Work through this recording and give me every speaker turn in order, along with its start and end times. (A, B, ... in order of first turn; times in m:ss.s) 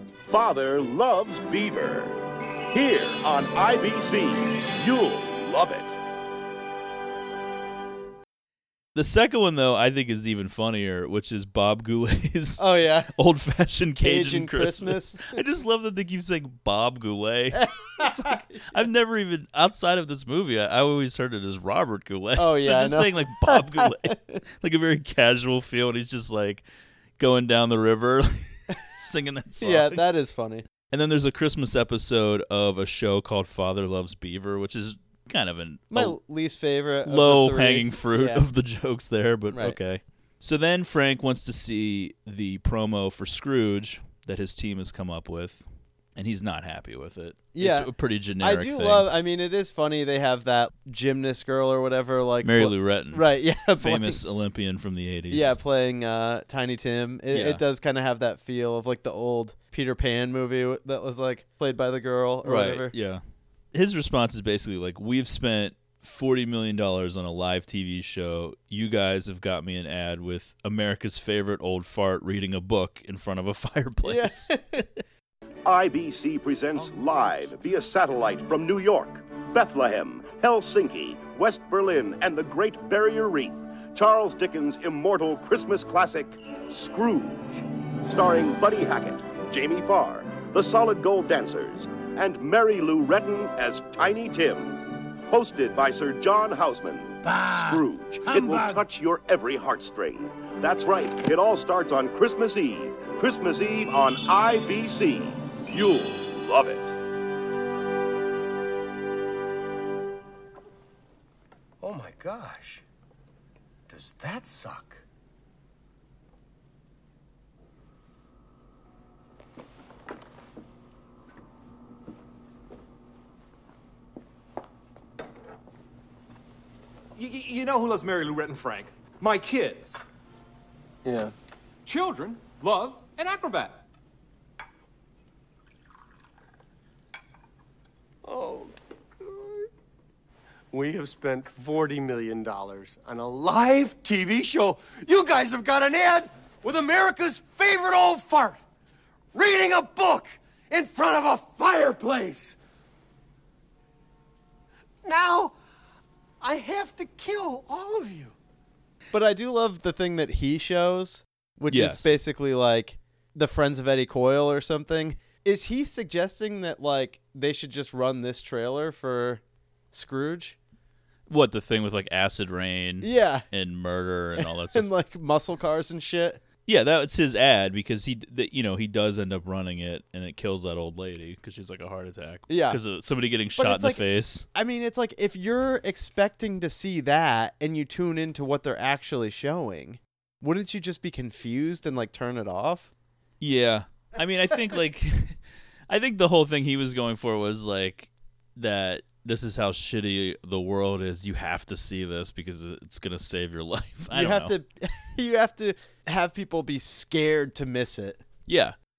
0:00.3-0:02.2 A
0:02.7-0:06.0 A
0:09.0-0:26.6 B
0:12.6-0:13.1 C
0:14.0-0:15.4 C
0:17.5-0:18.8 C
0:22.4-0:24.4 C
0:27.2-0:30.0 B
0:29.6-0:30.6 C
0:30.9-0:36.2 B
0:35.9-0:38.4 C
0:37.0-0:49.1 B
0:39.5-0:39.8 C
0:47.5-0:54.2 C
0:52.4-0:53.3 B
0:53.8-0:55.6 B
0:55.3-1:02.9 C
0:57.3-0:57.6 B
1:02.4-1:03.2 B
1:03.7-1:14.5 B
1:14.0-1:14.9 C
1:15.6-1:46.9 A
1:51.8-1:52.8 D
1:53.9-1:55.0 D
2:07.2-2:10.0 E
2:11.0-2:11.3 D
2:11.8-2:13.8 E
2:18.2-2:19.7 D
2:20.7-2:28.6 D
2:29.3-2:32.6 D
2:35.0-2:35.5 D
2:36.4-2:38.4 D
2:39.1-2:50.6 C
2:41.7-2:42.2 B
2:51.3-2:54.9 B
2:53.0-2:53.5 C
2:54.4-2:56.4 C
2:56.7-3:04.5 B
3:02.5-3:02.8 C
3:03.6-3:12.9 C
3:13.4-3:24.5 B
3:24.1-3:28.2 C
3:28.5-3:28.8 B